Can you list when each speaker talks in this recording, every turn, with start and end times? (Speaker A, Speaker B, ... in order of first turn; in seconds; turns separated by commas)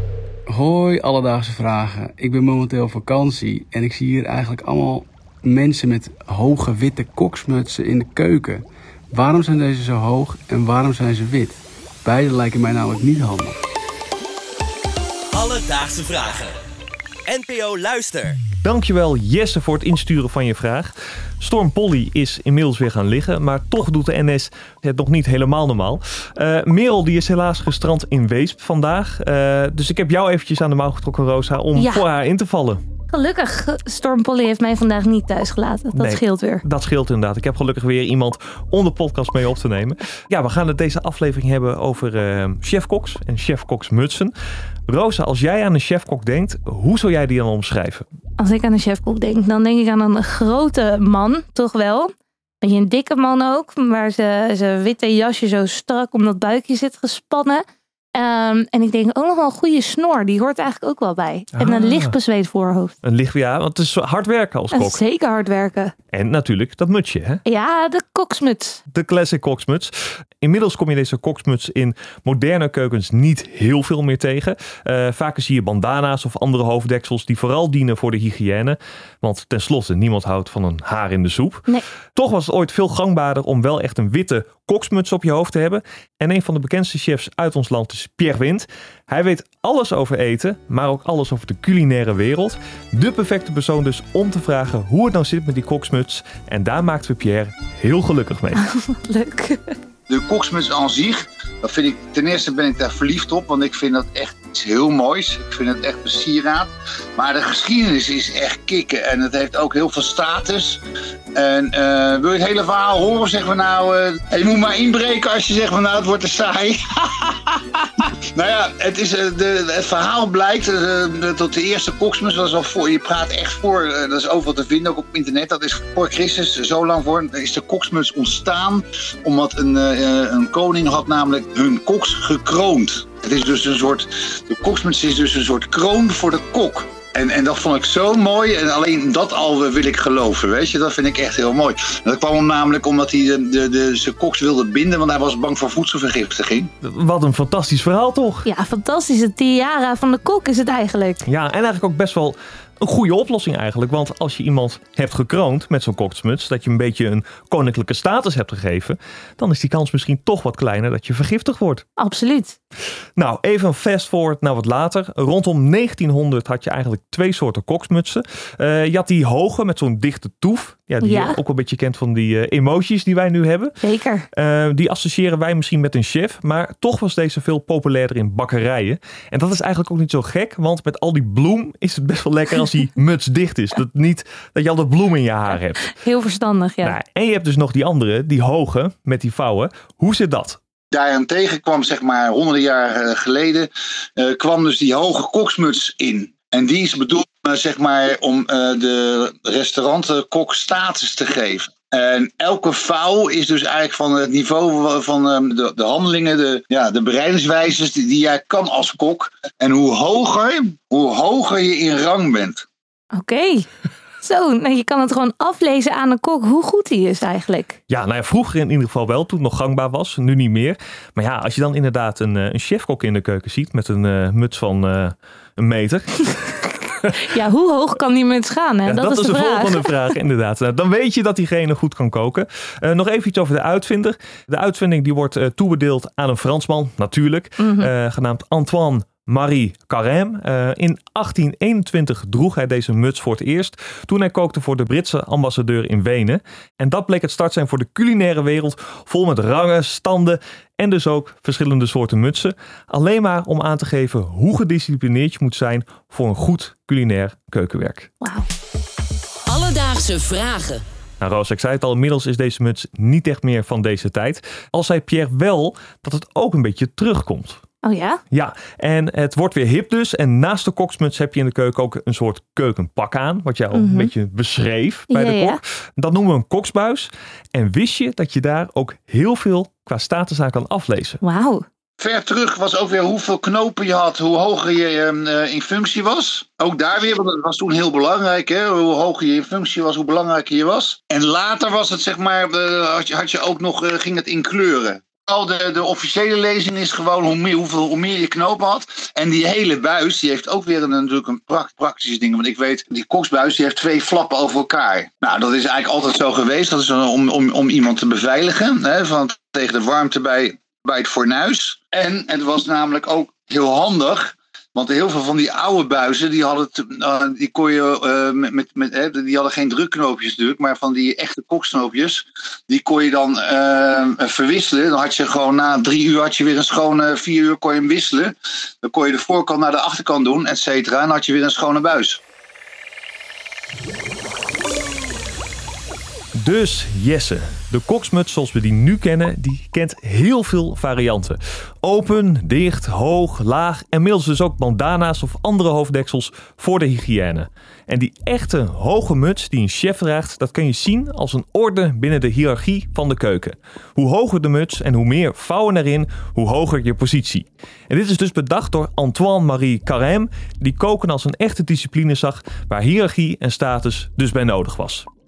Speaker A: 0.5-13.6, Speaker B: 15.3-16.6, Speaker B: 17.3-18.4, Speaker C: 18.6-32.8, Speaker D: 31.8-32.1, Speaker D: 33.1-36.6, Speaker C: 36.0-44.3, Speaker C: 44.9-48.1, Speaker D: 48.4-57.6, Speaker D: 58.1-62.9, Speaker C: 61.5-62.1, Speaker C: 63.0-65.0, Speaker D: 64.7-65.9, Speaker C: 66.1-67.4, Speaker D: 67.5-68.8, Speaker C: 68.9-98.6, Speaker D: 98.6-99.8, Speaker E: 100.1-110.8, Speaker E: 111.3-146.7, Speaker C: 146.8-148.5, Speaker D: 148.4-151.2, Speaker C: 151.2-161.8, Speaker D: 162.0-162.6, Speaker C: 163.2-173.8, Speaker D: 171.0-171.4, Speaker D: 173.8-174.3, Speaker C: 174.3-185.9, Speaker D: 185.8-187.0, Speaker C: 186.8-190.6, Speaker E: 190.9-212.7, Speaker D: 213.1-213.7, Speaker D: 214.2-217.8, Speaker C: 217.9-227.1, Speaker D: 227.1-229.9, Speaker C: 228.9-258.1, Speaker D: 237.6-237.9, Speaker D: 258.2-258.5, Speaker B: 260.1-260.6, Speaker C: 261.2-267.6, Speaker D: 267.8-268.2, Speaker C: 268.3-281.2, Speaker D: 273.7-274.1, Speaker D: 275.1-275.6, Speaker D: 281.2-281.6, Speaker E: 282.0-332.2, Speaker C: 336.4-365.1